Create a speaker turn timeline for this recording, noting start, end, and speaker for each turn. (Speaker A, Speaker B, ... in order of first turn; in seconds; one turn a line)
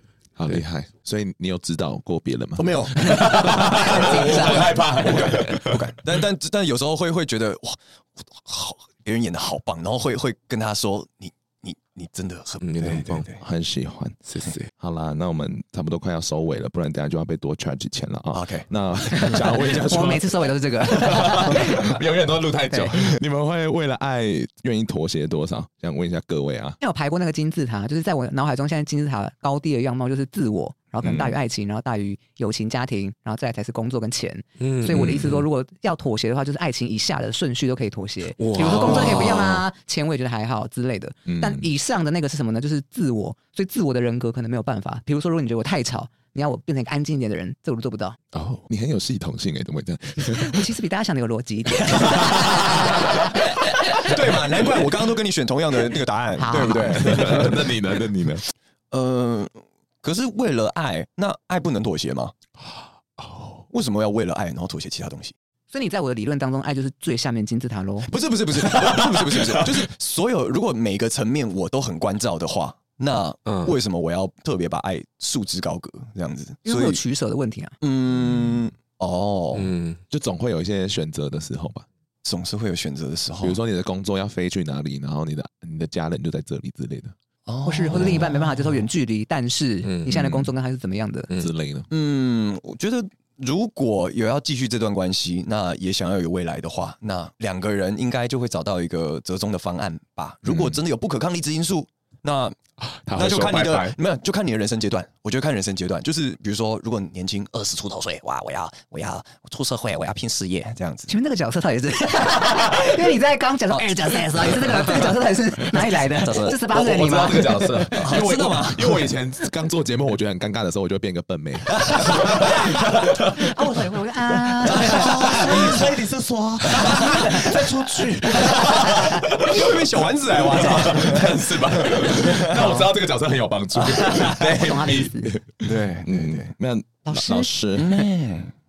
Speaker A: 0.4-5.9
Speaker B: 2.6-13.4
Speaker C: 3.1-4.8
Speaker D: 12.6-13.3
Speaker A: 13.4-26.8
Speaker D: 14.3-14.7
Speaker B: 18.3-18.7
Speaker C: 19.2-22.0
Speaker C: 26.8-48.2
Speaker A: 31.0-31.4
Speaker D: 34.6-35.5
Speaker A: 35.0-35.2
Speaker D: 38.4-39.6
Speaker A: 38.6-39.5
Speaker A: 41.3-41.7
Speaker A: 48.3-50.7
Speaker C: 50.2-53.5
Speaker A: 51.8-53.0
Speaker B: 53.9-57.6
Speaker C: 56.4-57.5
Speaker A: 56.5-58.5
Speaker B: 58.9-62.3
Speaker A: 63.2-63.6
Speaker B: 63.7-65.3
Speaker C: 65.7-68.1
Speaker B: 68.1-77.0
Speaker A: 68.6-69.8
Speaker D: 73.5-73.7
Speaker C: 76.7-77.8
Speaker B: 77.8-79.7
Speaker D: 79.5-80.0
Speaker A: 80.1-81.9
Speaker B: 82.2-83.6
Speaker A: 83.4-87.2
Speaker B: 87.5-88.9
Speaker C: 87.7-91.3
Speaker A: 88.0-88.2
Speaker D: 89.8-90.3
Speaker A: 90.1-90.5
Speaker A: 91.3-91.9
Speaker B: 91.9-102.6
Speaker A: 100.5-100.8
Speaker A: 102.8-104.0
Speaker B: 103.1-111.1
Speaker C: 111.1-118.0
Speaker B: 116.2-116.5
Speaker A: 116.5-123.5
Speaker B: 117.9-119.1
Speaker B: 121.8-122.5
Speaker C: 122.4-125.8
Speaker A: 124.3-138.1
Speaker B: 124.7-125.9
Speaker B: 126.7-132.9
Speaker C: 126.9-127.6
Speaker C: 128.7-129.0
Speaker B: 134.0-134.3
Speaker C: 134.2-135.3
Speaker B: 135.6-136.5
Speaker C: 137.1-137.5
Speaker B: 137.8-138.5